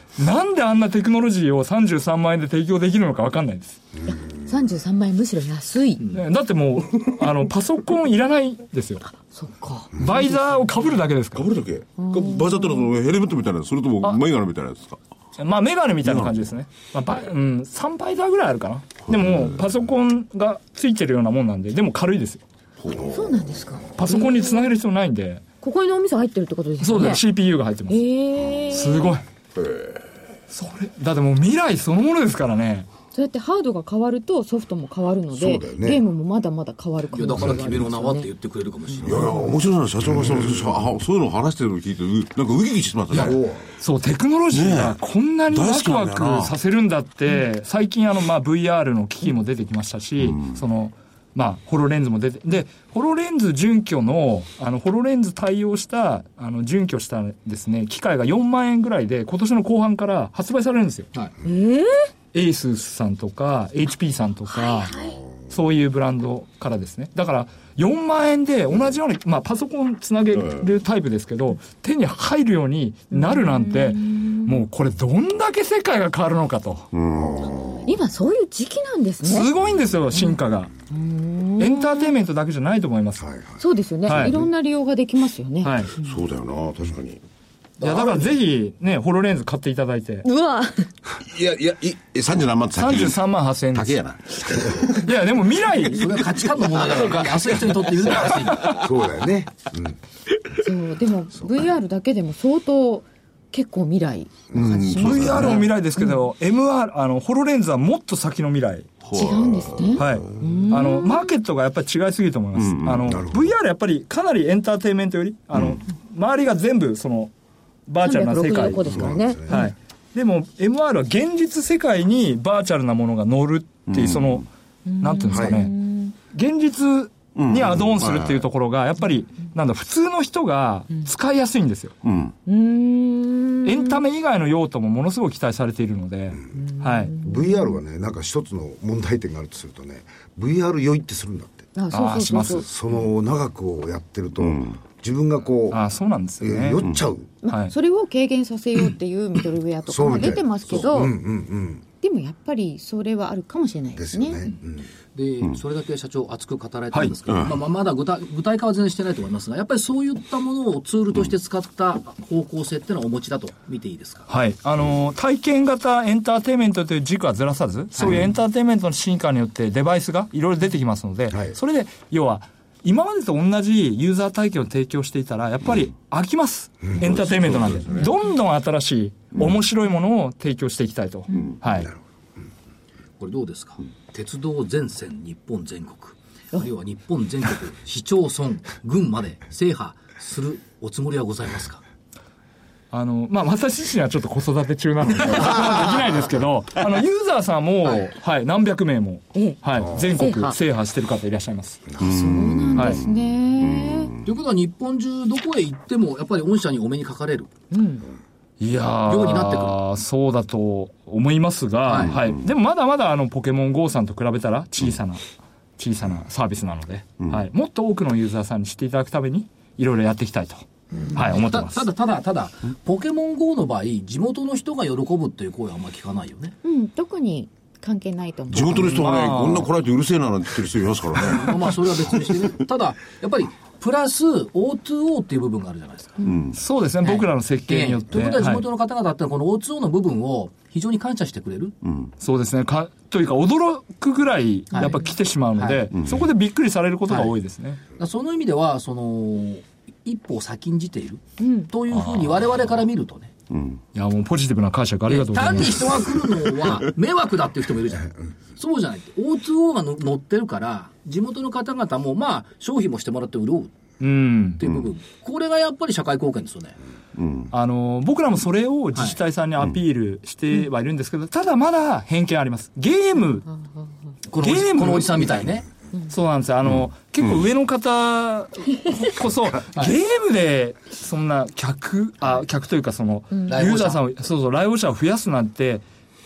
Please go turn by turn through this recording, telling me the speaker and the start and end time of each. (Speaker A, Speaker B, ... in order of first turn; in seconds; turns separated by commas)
Speaker A: 0.2-3.8, Speaker B: 4.1-6.1, Speaker A: 6.1-9.1, Speaker B: 9.1-10.7, Speaker A: 10.0-11.4, Speaker C: 11.4-15.0, Speaker B: 12.0-12.9, Speaker A: 15.4-22.4, Speaker C: 16.0-16.3, Speaker C: 19.1-19.5, Speaker C: 22.8-23.4, Speaker B: 22.9-24.8, Speaker A: 23.9-25.4, Speaker B: 25.6-27.2, Speaker A: 26.8-28.0, Speaker B: 27.9-29.2, Speaker A: 28.7-29.2, Speaker C: 29.6-30.0, Speaker A: 30.5-32.9, Speaker B: 33.1-38.3, Speaker D: 35.3-36.0, Speaker E: 37.1-39.4, Speaker C: 39.0-43.4, Speaker D: 39.1-39.5, Speaker D: 40.2-40.5, Speaker D: 43.1-43.7, Speaker A: 43.8-61.1, Speaker C: 44.5-45.0, Speaker C: 45.5-46.5, Speaker B: 61.4-62.1, Speaker A: 62.3-64.9, Speaker B: 64.5-65.2, Speaker A: 65.5-76.9, Speaker B: 73.1-74.6, Speaker C: 76.9-77.8, Speaker B: 77.8-79.5, Speaker A: 79.2-80.7, Speaker B: 80.1-80.4, Speaker B: 80.9-82.1, Speaker A: 81.6-83.3, Speaker D: 83.3-83.6, Speaker B: 83.6-86.1, Speaker A: 84.1-84.4, Speaker A: 85.6-85.9, Speaker C: 86.0-87.2, Speaker E: 87.8-88.3, Speaker A: 87.8-90.3, Speaker B: 90.2-90.9, Speaker C: 91.2-93.2, Speaker A: 92.8-94.0, Speaker C: 93.7-95.0, Speaker A: 94.9-96.2, Speaker E: 95.8-98.7, Speaker C: 96.2-97.7, Speaker D: 98.6-100.0, Speaker B: 100.5-106.2, Speaker C: 104.5-105.7, Speaker A: 105.0-108.9, Speaker C: 109.0-110.5, Speaker B: 109.1-111.3, Speaker A: 110.0-117.3, Speaker C: 112.6-113.2, Speaker D: 113.1-113.5, Speaker A: 117.9-119.0, Speaker B: 118.0-119.7, Speaker D: 118.9-119.5, Speaker A: 119.5-124.5, Speaker C: 123.9-124.4, Speaker B: 124.9-126.1, Speaker A: 125.0-125.7, Speaker D: 125.3-125.7, Speaker A: 126.3-131.9, Speaker C: 127.4-128.4, Speaker C: 132.0-132.3, Speaker B: 132.5-134.0, Speaker A: 133.6-137.2, Speaker B: 136.6-137.8, Speaker D: 137.2-141.7, Speaker B: 141.7-142.7, Speaker A: 141.9-142.7, Speaker D: 142.6-145.8, Speaker C: 144.4-144.8, Speaker A: 145.7-146.8, Speaker D: 146.4-147.3, Speaker B: 147.4-151.2, Speaker A: 147.5-147.7, Speaker D: 149.9-151.8, Speaker B: 152.0-154.5, Speaker D: 153.9-154.9, Speaker E: 155.1-164.3, Speaker C: 157.3-157.6, Speaker A: 164.3-181.9, Speaker E: 168.0-168.2, Speaker C: 176.9-178.2, Speaker E: 183.2-191.8, Speaker A: 192.9-201.8, Speaker B: 199.3-200.6, Speaker D: 201.9-202.6, Speaker B: 202.0-204.2, Speaker C: 202.0-202.9, Speaker A: 202.7-203.0, Speaker C: 203.6-204.2, Speaker E: 204.2-207.5, Speaker B: 207.7-208.1, Speaker A: 208.6-215.2, Speaker E: 209.1-209.8, Speaker E: 211.9-212.2, Speaker A: 215.8-221.9, Speaker B: 220.9-221.2, Speaker E: 221.2-226.6, Speaker B: 226.6-229.1, Speaker C: 228.5-232.5, Speaker A: 228.7-229.7, Speaker E: 231.2-236.3, Speaker B: 236.2-236.5, Speaker C: 236.2-236.6, Speaker A: 236.5-238.7, Speaker E: 237.0-241.7, Speaker C: 241.8-242.1, Speaker A: 242.2-247.8, Speaker B: 244.7-245.1, Speaker E: 245.6-245.9, Speaker E: 248.0-253.3, Speaker B: 251.4-251.7, Speaker A: 251.9-252.5, Speaker C: 253.5-253.8, Speaker A: 253.9-256.1, Speaker E: 255.1-263.7, Speaker A: 264.0-264.6, Speaker E: 264.6-266.8, Speaker C: 267.2-267.5, Speaker A: 267.5-273.5, Speaker E: 274.3-275.7, Speaker A: 274.4-275.3, Speaker A: 276.1-285.8, Speaker E: 283.5-284.0